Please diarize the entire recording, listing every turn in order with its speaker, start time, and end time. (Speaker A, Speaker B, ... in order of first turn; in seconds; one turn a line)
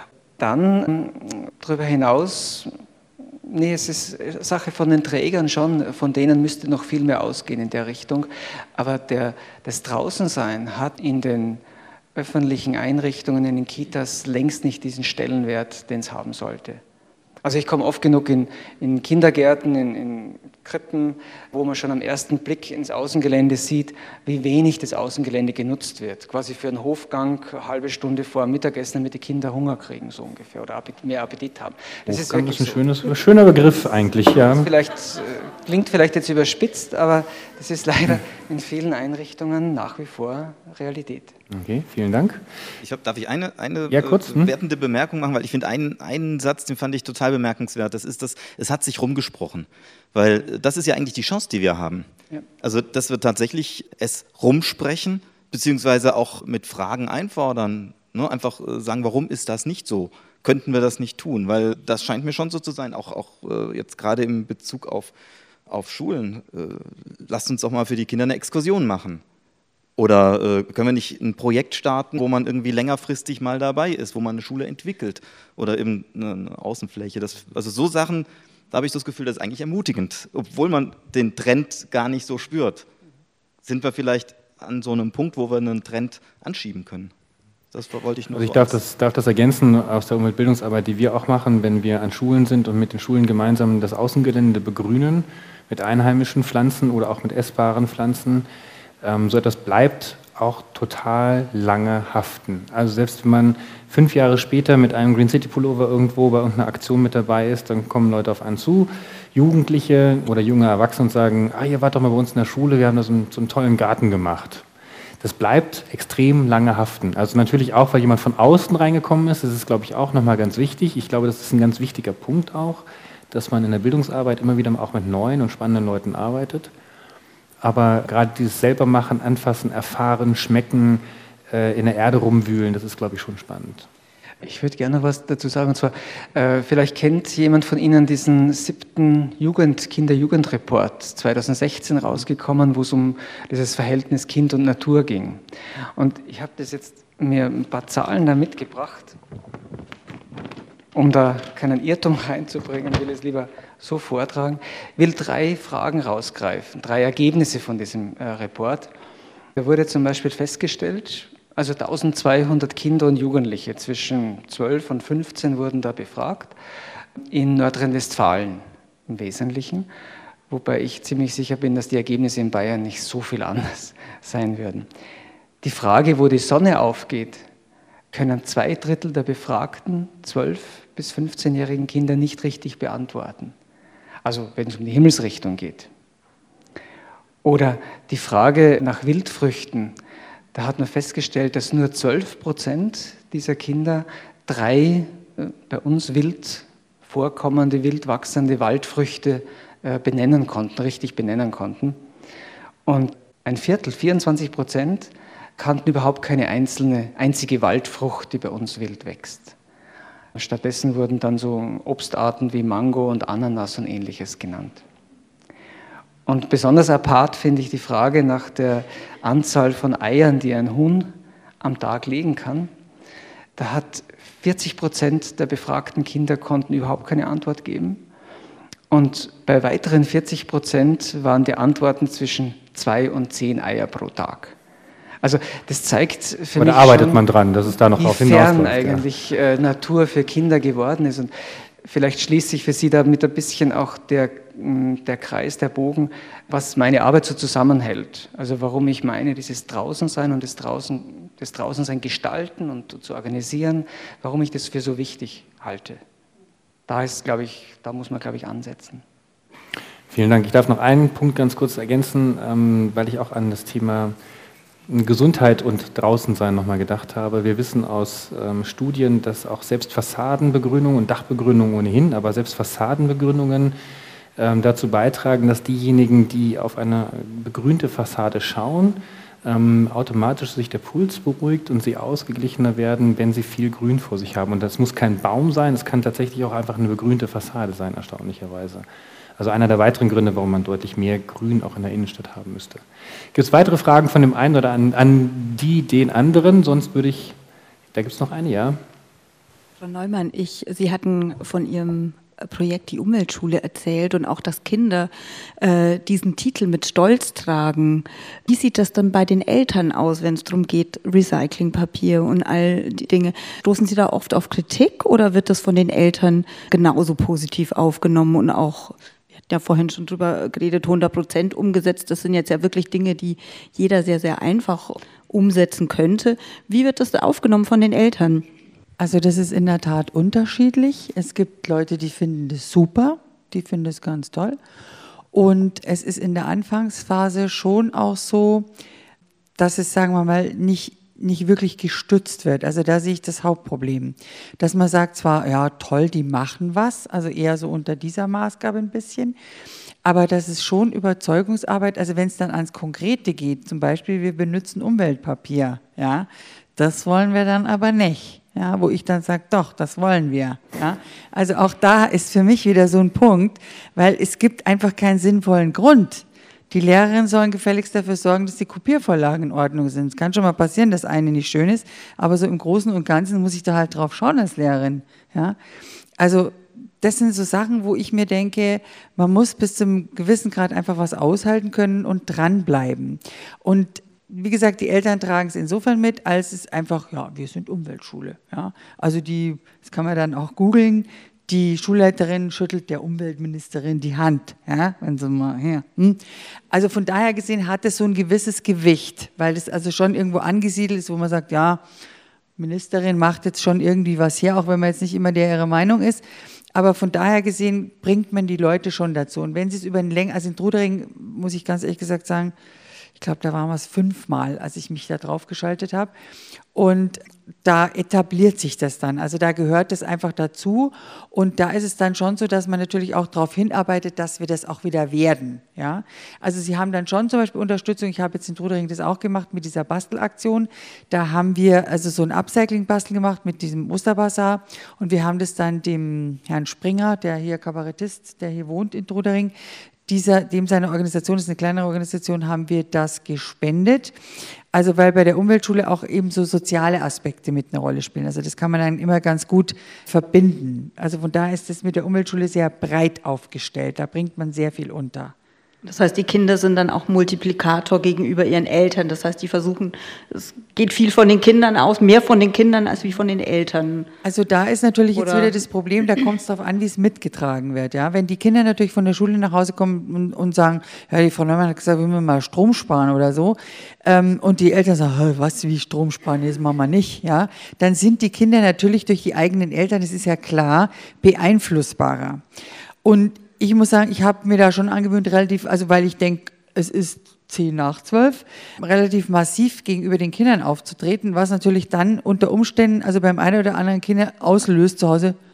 Speaker A: 0.4-2.7
Speaker A: 3.5-11.6
Speaker A: 12.2-16.8
Speaker A: 17.4-32.9
Speaker B: 32.1-34.7
Speaker A: 34.5-41.4
Speaker B: 41.5-42.5
Speaker C: 42.8-52.1
Speaker B: 43.9-44.5
Speaker C: 52.6-65.1
Speaker C: 65.7-69.2
Speaker C: 70.0-82.9
Speaker C: 83.6-87.1
Speaker C: 87.7-88.8
Speaker B: 88.3-98.5
Speaker B: 99.0-114.6
Speaker B: 115.2-126.7
Speaker B: 127.6-133.9
Speaker A: 134.4-145.4
Speaker A: 146.0-149.2
Speaker A: 150.9-158.9
Speaker A: 159.6-166.5
Speaker A: 167.3-169.9
Speaker A: 170.5-174.9
Speaker A: 175.6-177.5
Speaker A: 178.1-183.5
Speaker A: 184.2-185.9
Speaker A: 187.4-190.0
Speaker A: 190.5-202.0
Speaker A: 202.9-209.6
Speaker A: 210.3-214.8
Speaker A: 216.2-221.1
Speaker A: 221.6-222.7
Speaker A: 223.6-228.0
Speaker A: 228.9-234.5
Speaker A: 235.2-237.2
Speaker B: 236.6-239.0
Speaker A: 238.0-241.3
Speaker A: 241.8-256.0
Speaker A: 256.9-259.0
Speaker B: 260.1-264.1
Speaker B: 264.9-273.7
Speaker B: 274.4-288.9
Speaker B: 289.4-292.8
Speaker B: 293.3-297.4
Speaker B: 297.9-298.8
Speaker D: 299.8-328.5
Speaker E: 329.0-334.6
Speaker E: 335.3-338.7
Speaker E: 339.6-349.4
Speaker E: 350.0-375.6
Speaker E: 376.2-401.8
Speaker E: 402.6-412.5
Speaker E: 413.2-416.1
Speaker E: 416.7-439.5
Speaker E: 440.1-444.2
Speaker E: 444.7-455.3
Speaker D: 455.8-464.1
Speaker E: 464.2-482.4
Speaker D: 465.1-465.5
Speaker E: 483.0-495.4